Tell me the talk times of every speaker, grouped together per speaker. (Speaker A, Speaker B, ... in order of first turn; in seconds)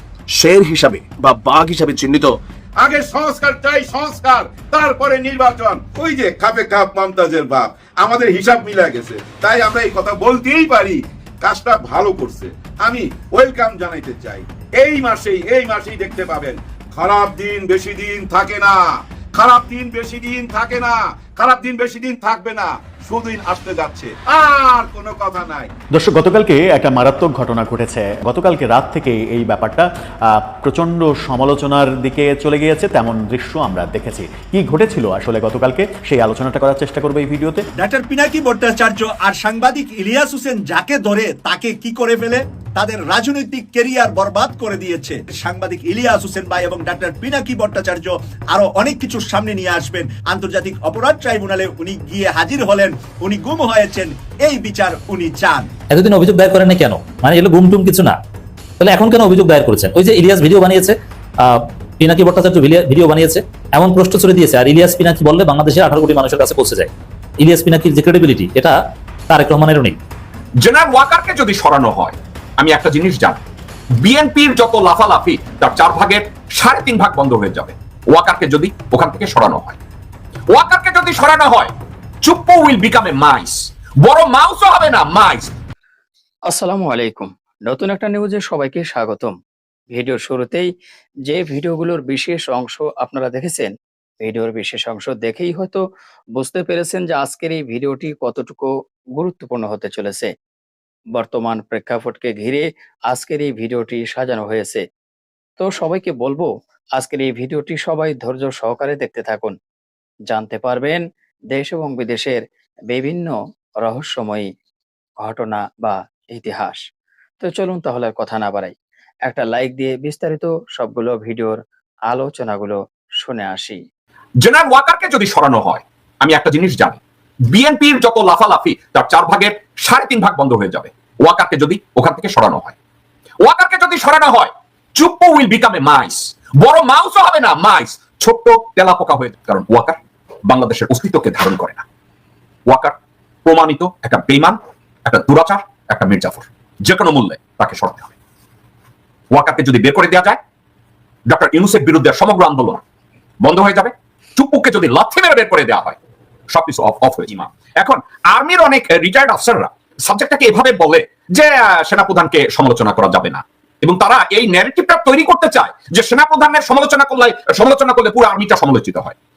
Speaker A: 0.3-2.4
Speaker B: 2.8-25.7
Speaker C: 25.9-37.7
Speaker D: 37.8-55.7
Speaker E: 55.9-58.2, 58.8-68.8, 69.3-70.0
Speaker F: 70.6-73.4, 74.0-79.8, 80.5-85.5, 124.4-132.8, 133.4-141.8, 142.7-142.9, 143.5-148.1, 149.3-150.4, 151.3-152.8, 153.4-156.0, 156.5-169.2
Speaker G: 86.5-89.4, 89.9-90.7, 91.3-95.8, 96.3-100.3, 101.1-104.8, 105.6-109.6, 110.3-114.5, 115.2-116.8, 117.4-118.7, 119.3-123.8